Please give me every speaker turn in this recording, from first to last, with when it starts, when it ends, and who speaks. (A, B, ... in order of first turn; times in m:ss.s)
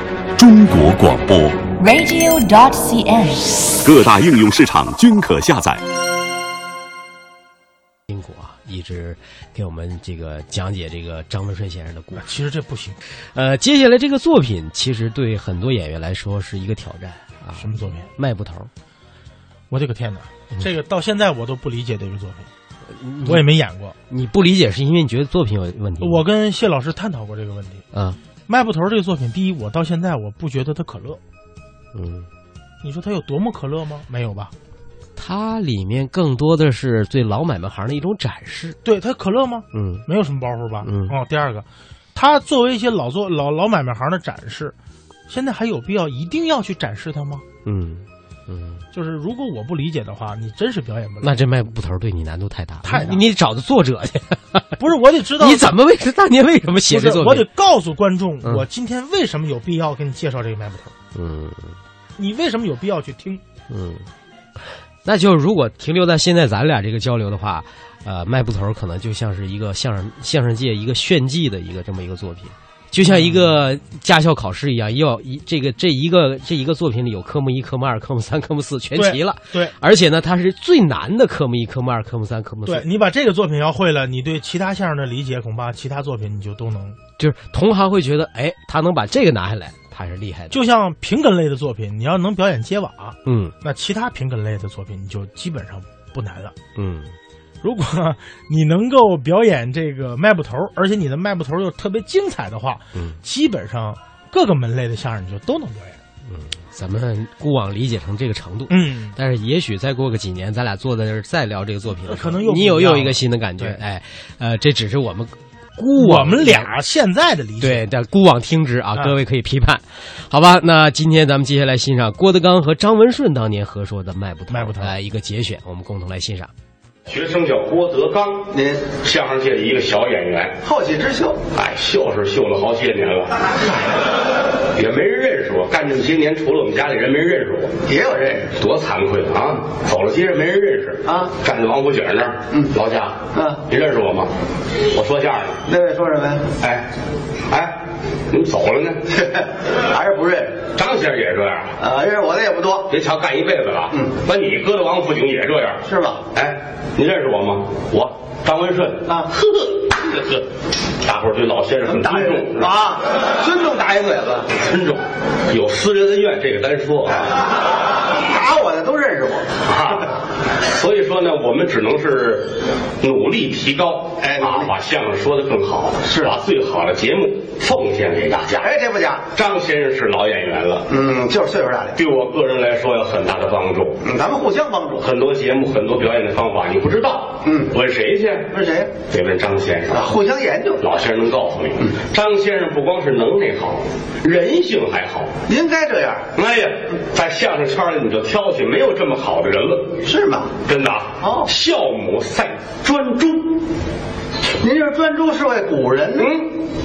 0:00.4-0:01.7 A
0:01.8-0:03.8 B
0:03.8-0:05.8 A
0:08.1-0:12.3 C
0:12.2-0:13.0 D
0:13.4-0:18.7 C
0:17.6-0:18.1 D
0:19.7-0:22.5 D
0:22.9-0:23.5 C
0:23.2-0:24.0 D
0:24.1-0:26.2 C
0:26.0-0:27.8 D
0:27.9-0:28.2 C
0:28.5-0:31.2 D
0:31.9-0:32.3 C
0:32.8-0:34.5 D
0:35.2-0:38.8 C
0:38.8-0:44.8 D
0:39.7-0:40.1 C
0:40.8-0:41.2 C
0:45.3-0:47.4 D
0:47.6-0:48.8 C
0:48.9-0:51.4 D
0:51.2-0:57.5 C
0:52.8-0:53.2 D
0:54.8-0:55.8 D
0:56.9-1:01.0 D
1:01.1-1:01.8 C
1:02.2-1:03.4 D
1:03.7-1:04.1 C
1:05.0-1:22.9 C
1:13.0-1:13.6 D
1:18.9-1:19.7 D
1:22.7-1:27.0 D
1:27.2-1:30.6 C
1:30.5-1:36.6 D
1:33.2-1:33.5 C
1:36.8-1:37.1 C
1:37.6-1:46.0 D
1:46.3-1:56.7 C
1:48.7-1:49.2 D
1:52.1-1:53.8 D
1:56.0-1:57.8 D
1:57.6-2:06.5 C
2:04.5-2:05.0 D
2:07.1-2:10.6 E
2:08.5-2:08.9 F
2:10.6-2:11.4 F
2:11.6-2:13.3 E
2:14.8-2:17.8 E
2:17.9-2:18.5 F
2:18.6-2:24.3 E
2:21.1-2:21.3 F
2:23.3-2:23.6 F
2:24.9-2:25.6 E
2:25.7-2:26.5 F
2:26.6-2:26.9 E
2:27.5-2:27.8 E
2:28.3-2:29.0 E
2:29.1-2:30.6 F
2:30.8-2:31.8 E
2:31.8-2:32.9 F
2:32.9-2:40.4 E
2:35.9-2:36.2 F
2:41.0-2:42.7 E
2:41.9-2:44.5 F
2:44.5-2:47.3 E
2:48.3-2:50.1 F
2:49.7-2:50.1 E
2:50.6-2:58.7 E
2:54.2-2:54.7 F
2:56.1-2:56.3 F
2:58.6-2:59.2 F
2:59.4-3:00.9 E
3:00.9-3:02.0 F
3:02.0-3:04.0 E
3:04.0-3:05.0 F
3:05.0-3:08.5 E
3:07.4-3:07.7 F
3:08.5-3:08.9 F
3:09.1-3:10.1 E
3:09.9-3:10.8 F
3:10.8-3:15.3 E
3:15.5-3:16.2 F
3:16.4-3:20.0 E
3:20.0-3:20.5 F
3:20.7-3:23.6 E
3:21.2-3:21.5 F
3:24.6-3:26.4 F
3:26.2-3:26.5 E